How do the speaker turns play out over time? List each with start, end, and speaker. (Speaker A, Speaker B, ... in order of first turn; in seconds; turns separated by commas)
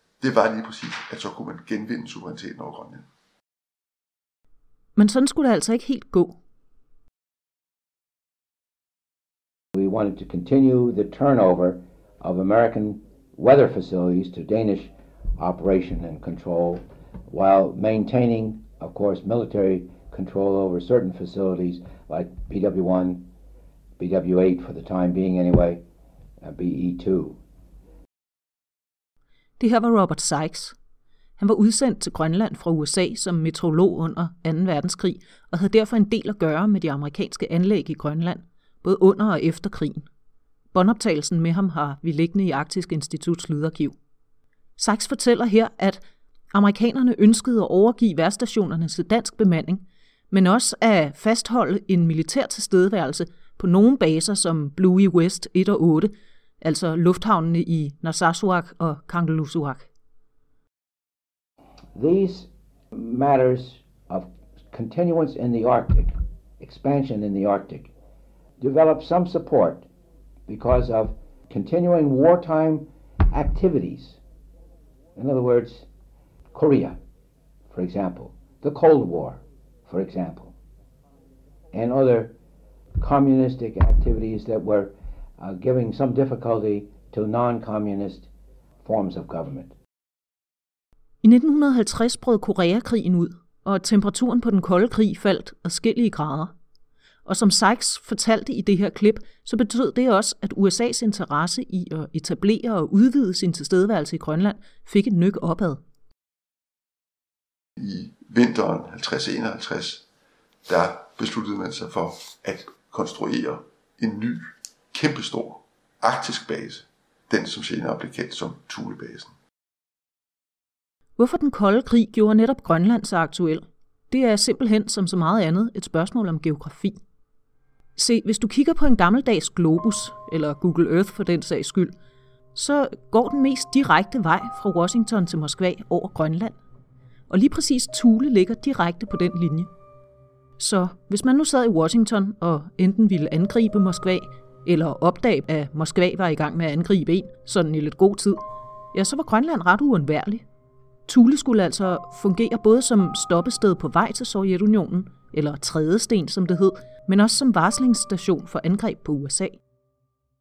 Speaker A: 0.2-3.1, Speaker B: 5.0-6.4, Speaker C: 9.8-23.3, Speaker C: 24.0-25.8, Speaker C: 26.4-27.4, Speaker B: 29.6-30.8, Speaker B: 31.4-40.1, Speaker B: 40.7-44.0, Speaker B: 44.8-46.0, Speaker B: 46.5-59.9, Speaker C: 62.0-67.9, Speaker C: 68.6-69.9, Speaker C: 70.5-74.2, Speaker C: 75.2-75.9, Speaker C: 76.5-77.0, Speaker C: 77.7-80.5, Speaker C: 81.7-82.3, Speaker C: 83.0-88.3, Speaker C: 88.8-89.7, Speaker B: 91.2-96.5, Speaker B: 97.3-105.8, Speaker A: 107.8-110.0, Speaker A: 110.7-119.3, Speaker B: 121.2-127.0, Speaker B: 128.0-131.9, Speaker B: 132.6-136.6, Speaker B: 137.3-139.7, Speaker B: 140.6-148.4, Speaker B: 148.9-150.4, Speaker B: 151.1-159.6